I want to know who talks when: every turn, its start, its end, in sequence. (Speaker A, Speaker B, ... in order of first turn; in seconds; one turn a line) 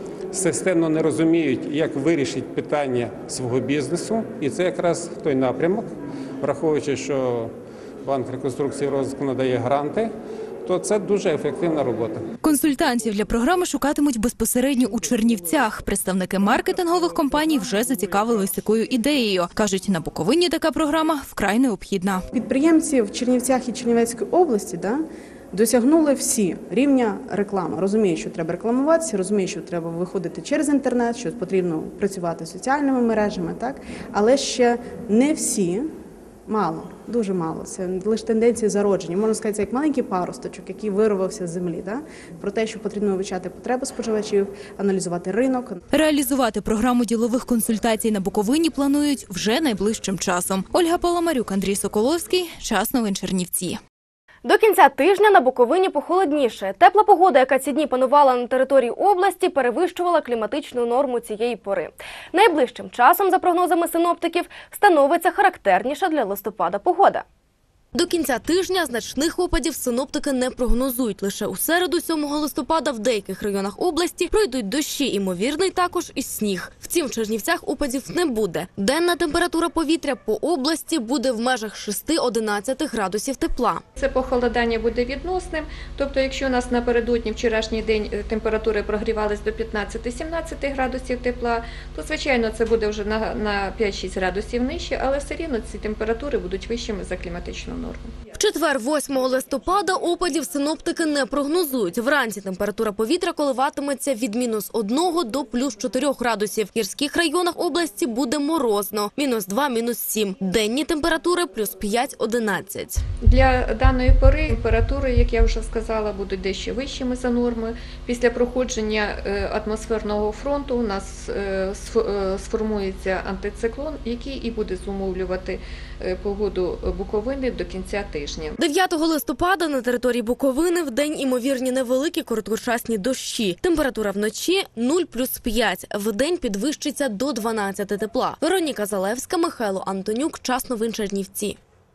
Speaker A: 0.3-5.8
Speaker A: 6.4-7.5
Speaker A: 8.0-10.1
Speaker A: 10.6-12.2
Speaker B: 12.4-22.2
Speaker C: 22.3-35.9
Speaker C: 36.5-45.8
Speaker B: 45.9-53.8
Speaker D: 54.4-67.2
Speaker D: 67.9-83.8
Speaker E: 84.0-98.1
Speaker D: 98.4-113.0
Speaker E: 113.2-128.6
Speaker D: 128.6-141.6